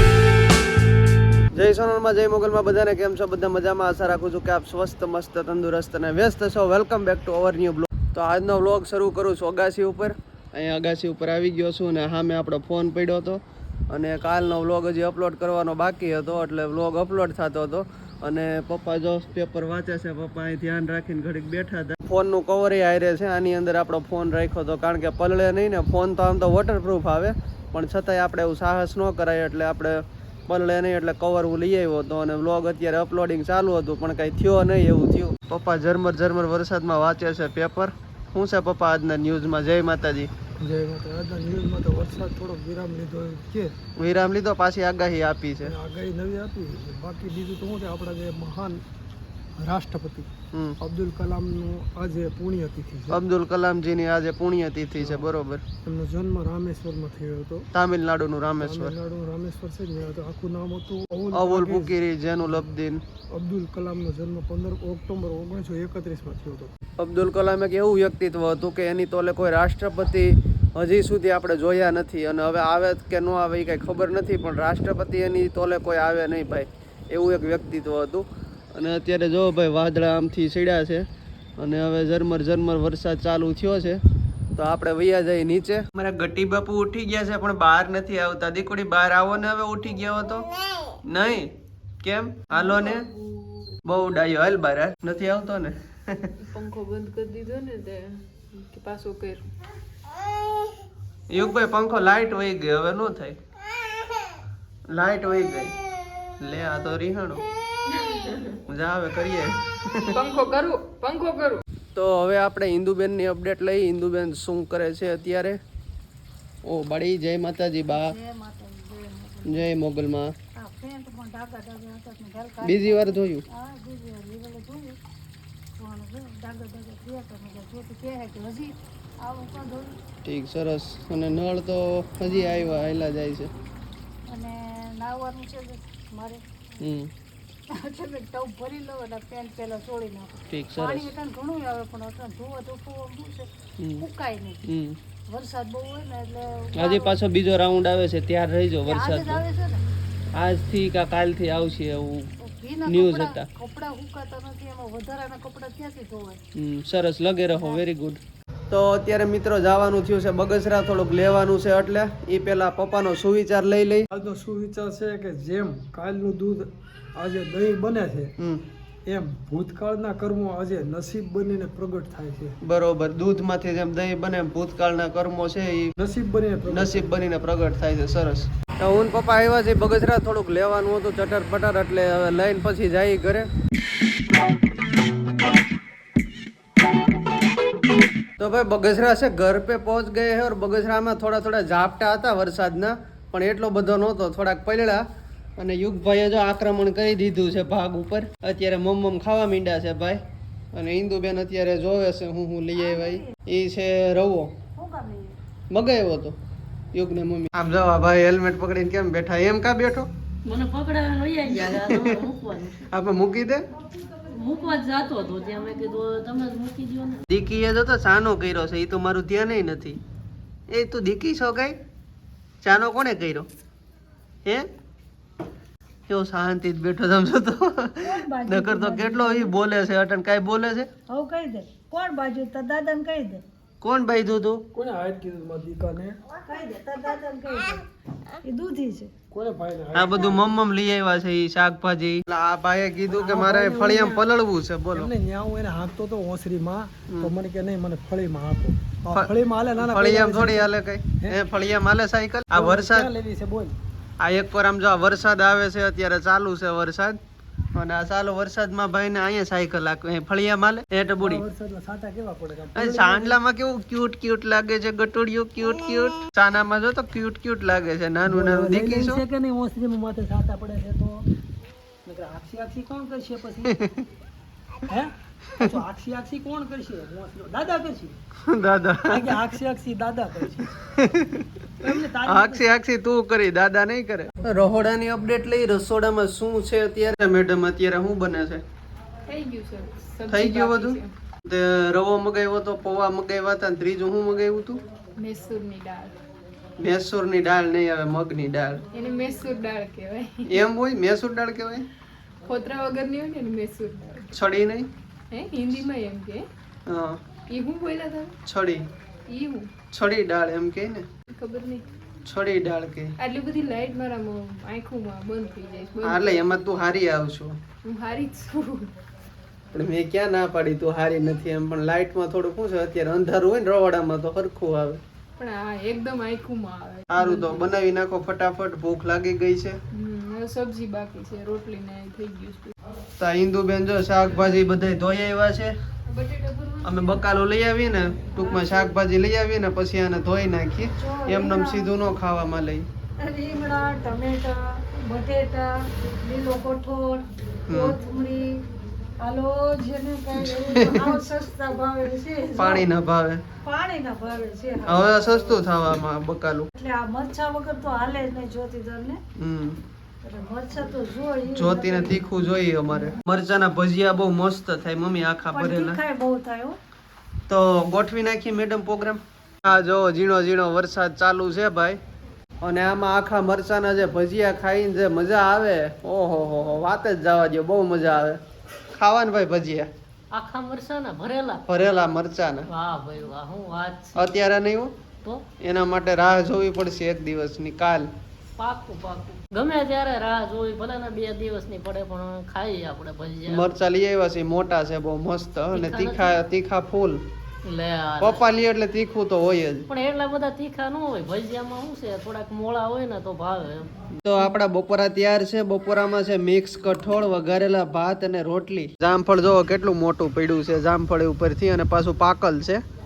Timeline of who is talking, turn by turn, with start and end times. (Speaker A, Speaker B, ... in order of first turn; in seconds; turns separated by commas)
Speaker A: 1.5-40.3, Speaker B: 40.6-43.7, Speaker A: 44.0-45.7, Speaker B: 45.6-48.8, Speaker B: 49.6-53.2, Speaker A: 50.5-50.8, Speaker A: 53.1-55.6, Speaker B: 55.0-55.3, Speaker B: 55.8-57.7, Speaker A: 57.7-59.0, Speaker B: 58.6-62.7, Speaker A: 61.3-63.0, Speaker B: 63.3-66.7, Speaker A: 67.0-81.0, Speaker A: 81.6-84.0, Speaker A: 84.6-90.5, Speaker A: 91.0-91.5, Speaker A: 92.0-93.0, Speaker C: 92.5-93.7, Speaker A: 93.9-96.3, Speaker C: 96.4-99.5, Speaker A: 101.3-103.4, Speaker A: 104.9-105.8, Speaker A: 106.4-107.4, Speaker A: 108.6-110.2, Speaker C: 110.1-111.6, Speaker A: 112.0-115.6, Speaker A: 116.7-118.1, Speaker D: 117.9-119.7, Speaker A: 119.5-120.3, Speaker D: 120.6-125.0, Speaker A: 122.6-123.5, Speaker D: 125.8-129.9, Speaker A: 130.2-133.5, Speaker D: 134.3-136.4, Speaker A: 136.8-137.1, Speaker D: 137.7-143.5, Speaker A: 140.5-141.1, Speaker A: 143.8-144.1, Speaker D: 144.0-144.6, Speaker A: 144.6-145.0, Speaker D: 145.3-147.2, Speaker A: 146.8-149.4, Speaker D: 148.9-149.8, Speaker A: 150.3-152.3, Speaker D: 152.4-156.4, Speaker A: 152.9-153.5, Speaker A: 156.6-158.2, Speaker D: 157.6-157.8, Speaker A: 158.7-164.1, Speaker B: 164.1-168.3, Speaker B: 169.1-172.6, Speaker A: 172.6-175.9, Speaker B: 176.0-177.1, Speaker A: 176.7-183.5, Speaker A: 188.4-195.0, Speaker A: 195.6-200.2, Speaker A: 200.7-204.5, Speaker D: 202.8-203.3, Speaker D: 204.8-205.4, Speaker A: 205.7-206.4, Speaker A: 206.9-210.1, Speaker E: 210.4-212.8, Speaker A: 211.5-212.2, Speaker A: 212.8-213.6, Speaker E: 214.3-217.2, Speaker D: 215.2-215.7, Speaker A: 217.3-220.0, Speaker A: 220.7-221.8, Speaker A: 222.6-223.5, Speaker A: 226.1-230.9, Speaker D: 228.0-229.6, Speaker D: 231.1-233.4, Speaker A: 233.8-234.6, Speaker B: 234.7-236.2, Speaker D: 236.3-237.8, Speaker D: 238.4-239.1, Speaker B: 239.3-240.4, Speaker A: 239.9-245.1, Speaker B: 243.1-244.2, Speaker B: 244.9-250.7, Speaker A: 249.1-253.1, Speaker B: 252.5-253.8, Speaker A: 254.2-257.2, Speaker A: 257.8-261.4, Speaker B: 261.2-263.4, Speaker A: 262.8-269.2, Speaker B: 268.2-271.2, Speaker B: 272.1-273.7, Speaker A: 273.6-274.0, Speaker B: 274.9-278.1, Speaker A: 275.5-275.8, Speaker A: 278.4-279.6, Speaker B: 279.1-280.7, Speaker A: 280.7-281.6, Speaker B: 281.8-282.7, Speaker A: 282.1-288.6, Speaker C: 289.3-291.1, Speaker A: 290.3-294.8, Speaker C: 295.2-296.1, Speaker A: 296.8-298.8, Speaker C: 298.9-300.5, Speaker A: 300.5-301.9, Speaker C: 302.4-304.3, Speaker A: 304.3-304.9, Speaker C: 305.3-306.4, Speaker A: 306.9-307.2, Speaker C: 307.5-308.3, Speaker A: 308.4-308.8, Speaker C: 309.3-309.7, Speaker A: 309.9-311.1, Speaker C: 311.3-311.8, Speaker A: 312.2-313.1, Speaker C: 313.2-316.4, Speaker A: 316.0-317.6, Speaker C: 317.8-318.9, Speaker A: 319.7-325.0, Speaker C: 325.4-327.7, Speaker A: 327.1-329.8, Speaker C: 329.9-332.8, Speaker A: 333.2-335.7, Speaker C: 336.1-337.0, Speaker A: 336.8-342.9, Speaker C: 338.4-338.9, Speaker D: 340.9-341.9, Speaker D: 343.2-348.6, Speaker A: 347.7-348.0, Speaker D: 349.2-352.9, Speaker A: 350.6-351.1, Speaker A: 352.6-353.4, Speaker D: 353.6-355.6, Speaker A: 354.8-356.7, Speaker D: 356.8-359.2, Speaker A: 359.4-359.8, Speaker D: 360.2-362.2, Speaker A: 361.5-366.0, Speaker D: 365.5-366.8, Speaker A: 367.5-372.0, Speaker A: 372.6-378.4, Speaker A: 378.9-379.9, Speaker E: 380.3-381.6, Speaker A: 381.7-382.7, Speaker E: 382.7-384.2, Speaker A: 384.1-384.9, Speaker A: 385.6-388.1, Speaker E: 388.6-393.7, Speaker A: 393.5-397.2, Speaker E: 395.7-396.3, Speaker E: 397.6-398.4, Speaker A: 398.2-399.9, Speaker E: 399.9-403.9, Speaker A: 404.2-412.8